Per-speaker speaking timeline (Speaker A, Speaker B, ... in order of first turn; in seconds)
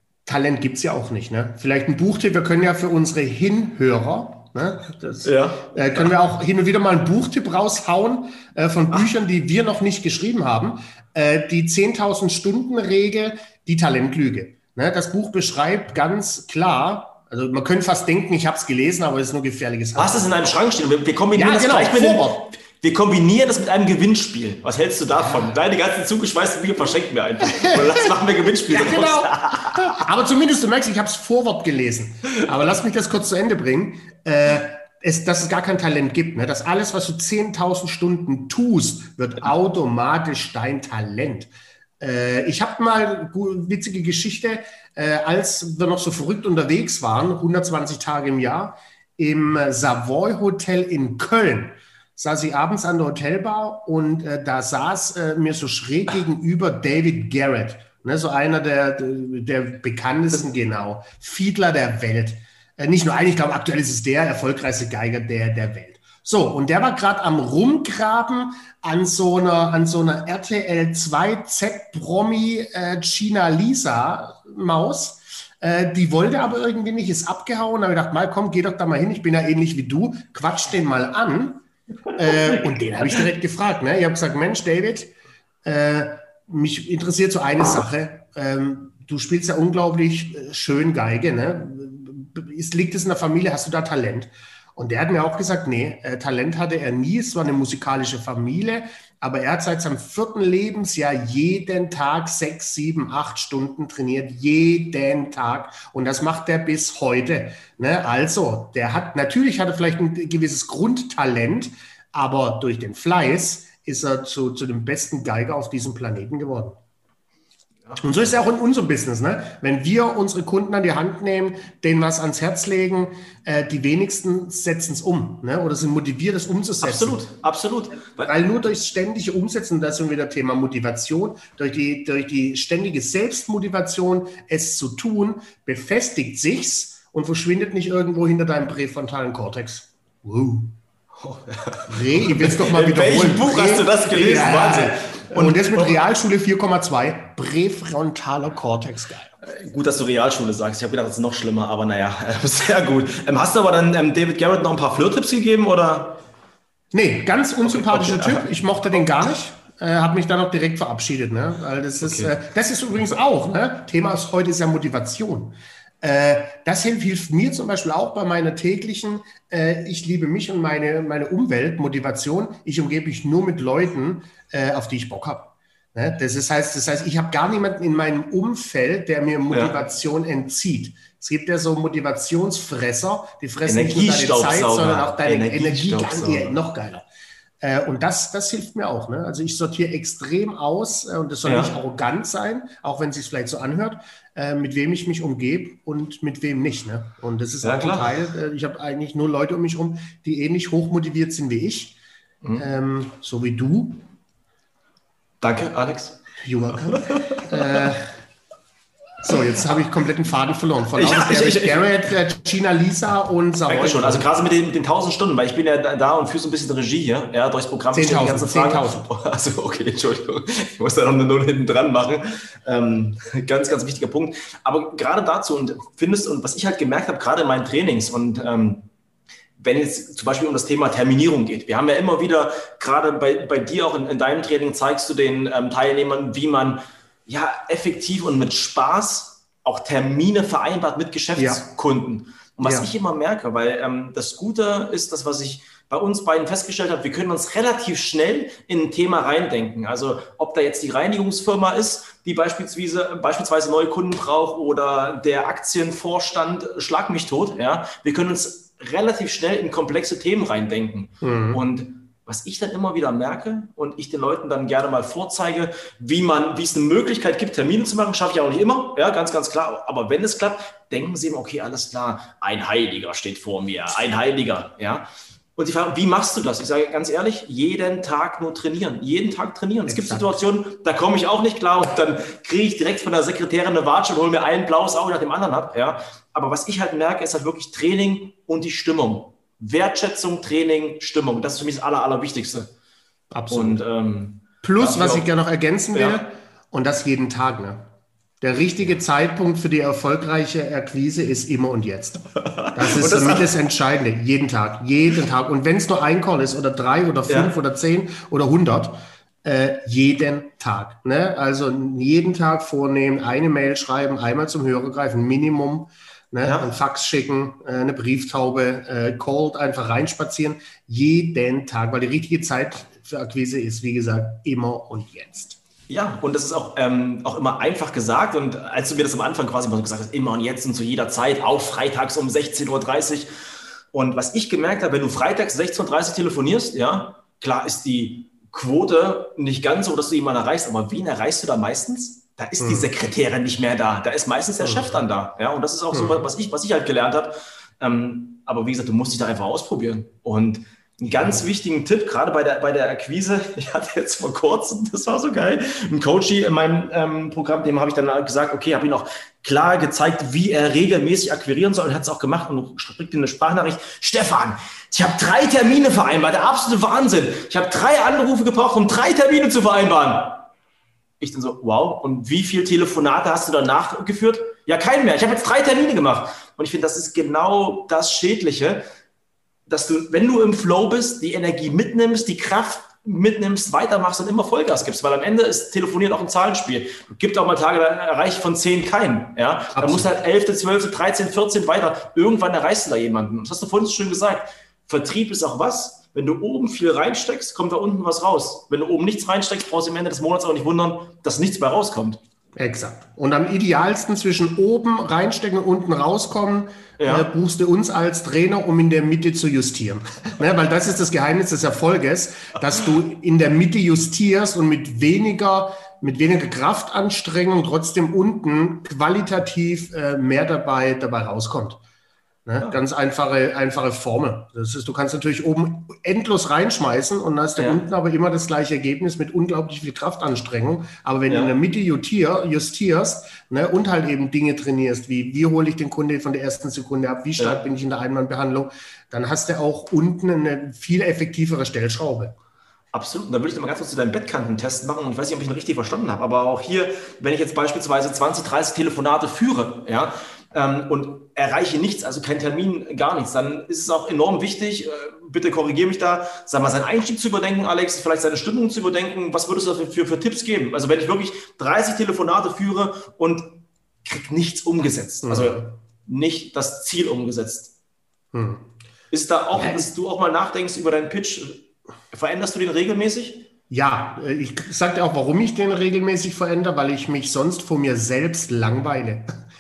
Speaker A: 0.3-20.4, 21.3-22.4, 25.2-25.5, 27.6-81.6, 82.1-85.1, 85.7-116.8, 118.0-127.2, 128.2-140.7, 141.9-149.3, 156.9-187.1, 187.6-202.0, 202.6-204.0, 206.4-208.1, 209.2-214.3, 217.9-219.1, 241.4-241.6, 242.6-242.9, 261.2-261.6, 279.9-280.4, 293.3-293.8, 294.6-297.9, 298.4-325.6, 342.6-342.9, 344.6-344.9, 345.9-346.2, 351.1-351.4, 389.8-390.1, 402.6-421.8, 422.5-442.3, 465.2-465.7, 468.3-468.7, 469.5-469.9, 473.7-479.3
Speaker B: 5.2-6.1, 19.9-30.0, 117.9-118.3, 126.8-128.3, 141.2-146.0, 149.4-156.2, 157.7-158.8, 162.0-162.3, 179.5-179.8, 183.7-186.6, 191.5-191.8, 197.6-198.1, 205.4-206.2, 206.9-207.9, 210.9-212.0, 213.7-228.9, 229.6-292.7, 293.5-295.3, 295.9-296.2, 302.4-303.5, 307.3-307.5, 316.4-316.7, 325.9-333.3, 333.9-370.5, 371.2-378.9, 379.7-402.2, 407.0-407.3, 427.6-427.8, 431.3-431.6, 442.9-467.7, 469.1-473.5